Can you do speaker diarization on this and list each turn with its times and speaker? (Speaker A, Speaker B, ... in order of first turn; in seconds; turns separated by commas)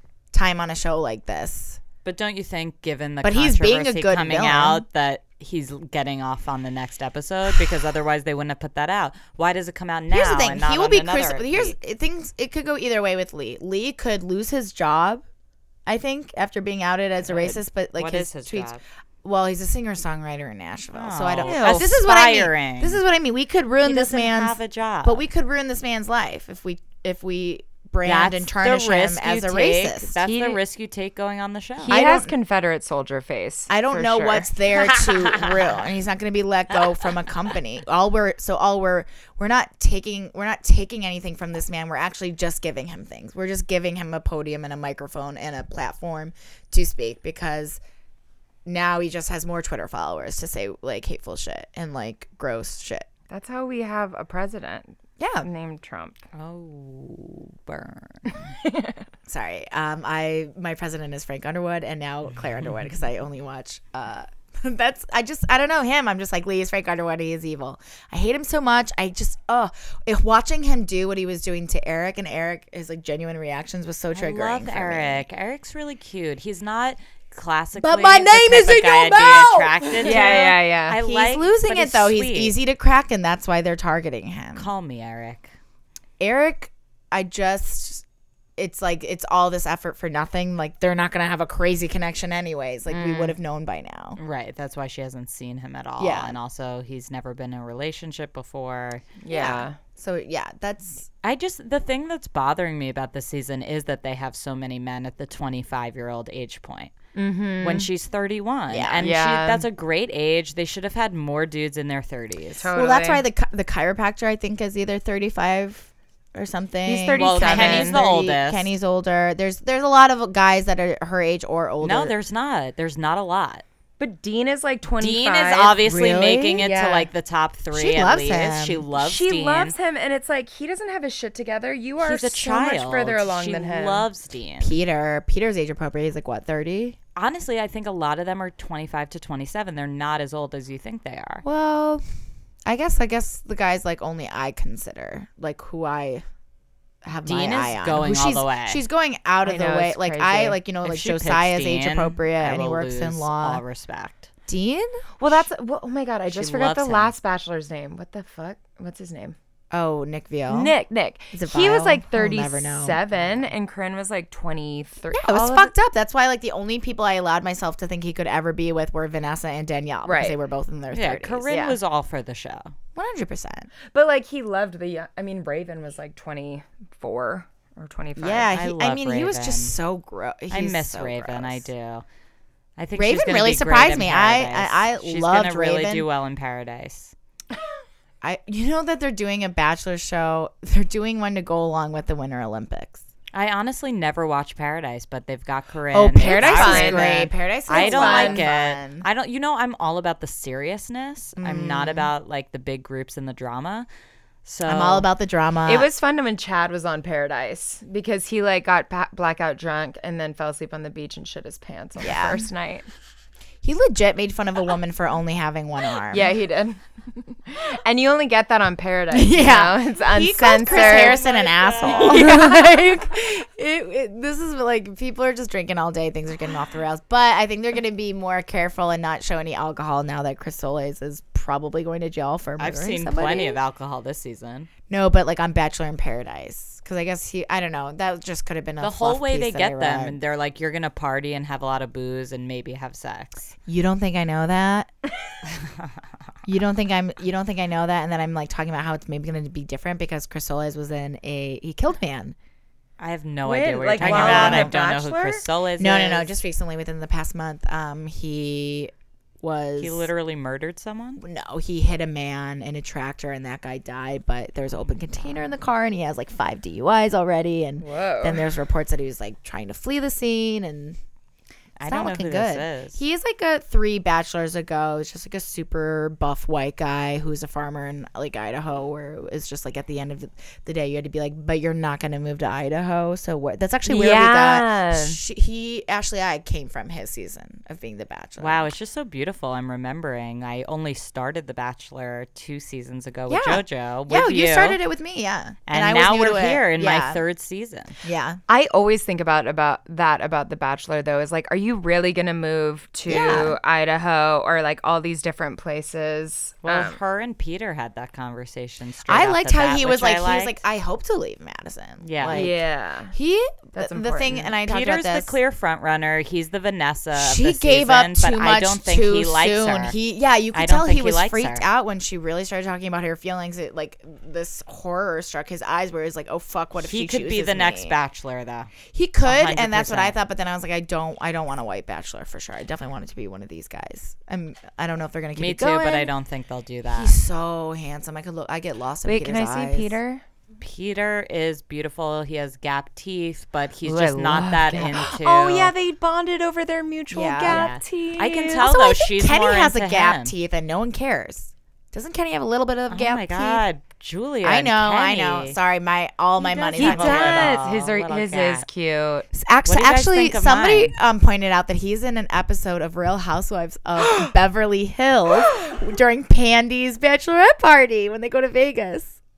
Speaker A: 0.3-1.8, Speaker B: 2.0-11.7, Speaker A: 3.2-4.8, Speaker A: 10.1-15.2, Speaker A: 15.9-30.1, Speaker B: 17.2-18.8, Speaker B: 20.9-23.0, Speaker C: 21.4-21.9, Speaker B: 23.8-25.2, Speaker B: 28.0-31.9, Speaker C: 30.2-30.6, Speaker C: 31.8-34.5, Speaker A: 31.9-32.3, Speaker A: 33.7-47.8, Speaker B: 34.8-35.8, Speaker A: 48.6-53.0, Speaker C: 53.3-56.2, Speaker A: 55.2-55.5, Speaker B: 56.3-58.4, Speaker C: 58.6-59.0, Speaker A: 59.3-75.2, Speaker B: 74.1-82.5, Speaker A: 77.8-84.7, Speaker C: 80.0-81.0, Speaker B: 84.5-85.5, Speaker A: 86.2-88.0, Speaker A: 88.6-94.2, Speaker C: 92.9-93.3, Speaker B: 94.2-99.0, Speaker A: 96.0-96.3, Speaker C: 99.2-99.8, Speaker A: 99.3-101.1, Speaker B: 101.2-106.9, Speaker C: 107.1-107.9, Speaker B: 107.6-112.7, Speaker A: 108.7-109.0, Speaker C: 109.0-109.7, Speaker C: 112.6-113.2, Speaker A: 112.7-122.1, Speaker C: 116.8-118.0, Speaker B: 117.2-118.7, Speaker B: 121.8-123.6, Speaker C: 124.0-125.8, Speaker B: 125.0-129.7, Speaker A: 125.8-126.8, Speaker C: 126.6-127.0, Speaker A: 127.7-128.8, Speaker C: 128.9-134.1, Speaker B: 132.0-134.8, Speaker A: 134.6-137.0, Speaker B: 137.2-141.4, Speaker A: 141.4-142.0, Speaker A: 142.7-146.2, Speaker A: 147.0-153.6, Speaker B: 147.2-148.8, Speaker C: 149.4-150.6, Speaker B: 150.8-154.3, Speaker A: 154.5-155.0, Speaker C: 155.2-159.3, Speaker B: 156.3-157.1, Speaker A: 159.7-160.7, Speaker C: 160.5-165.7, Speaker A: 161.3-163.4, Speaker A: 165.1-171.5, Speaker C: 170.0-170.4, Speaker B: 170.9-172.7, Speaker C: 171.5-171.8, Speaker A: 172.9-173.7, Speaker C: 173.9-178.5, Speaker A: 178.2-181.7, Speaker B: 178.5-179.7, Speaker B: 180.5-182.0, Speaker B: 182.8-187.1, Speaker A: 182.9-186.1, Speaker A: 188.2-193.0, Speaker B: 193.3-203.9, Speaker A: 195.9-199.0, Speaker C: 196.2-197.1, Speaker C: 197.7-198.5, Speaker A: 201.4-202.1, Speaker B: 204.4-205.1, Speaker A: 204.6-205.9, Speaker C: 205.7-212.9, Speaker A: 212.0-212.4, Speaker A: 213.6-216.3, Speaker C: 216.1-221.2, Speaker A: 219.1-233.6, Speaker B: 220.7-222.3, Speaker C: 221.8-222.8, Speaker B: 232.6-234.7, Speaker A: 234.9-240.2, Speaker B: 238.8-243.5, Speaker A: 243.7-244.9, Speaker B: 245.5-245.9, Speaker A: 246.4-252.3, Speaker B: 253.0-256.3, Speaker C: 253.4-255.4, Speaker A: 254.0-254.8, Speaker A: 255.8-260.1, Speaker B: 259.8-261.2, Speaker A: 261.2-271.0, Speaker C: 267.8-268.4, Speaker B: 271.8-273.0, Speaker A: 271.8-288.7, Speaker C: 283.9-285.2, Speaker B: 288.4-294.8, Speaker A: 293.3-293.6, Speaker A: 294.1-297.2, Speaker B: 295.7-297.9, Speaker A: 298.0-298.4, Speaker C: 298.5-307.0, Speaker A: 303.1-303.6, Speaker B: 306.6-310.6, Speaker A: 309.1-312.6, Speaker B: 312.0-312.5, Speaker C: 312.3-313.1, Speaker A: 313.1-315.3, Speaker C: 313.7-314.5, Speaker B: 314.6-319.9, Speaker A: 317.1-327.9, Speaker B: 320.5-321.6, Speaker B: 326.8-328.7, Speaker A: 328.9-336.1, Speaker B: 329.2-330.2, Speaker B: 335.3-337.1, Speaker A: 336.9-339.9, Speaker C: 339.0-340.2, Speaker B: 340.6-345.7, Speaker C: 343.8-348.7, Speaker A: 347.1-347.7, Speaker B: 347.4-350.4, Speaker A: 348.6-353.6, Speaker B: 352.9-355.6, Speaker A: 354.4-357.6, Speaker B: 356.4-358.7, Speaker C: 356.7-359.2, Speaker A: 359.3-369.1, Speaker B: 359.6-360.9, Speaker C: 365.4-365.8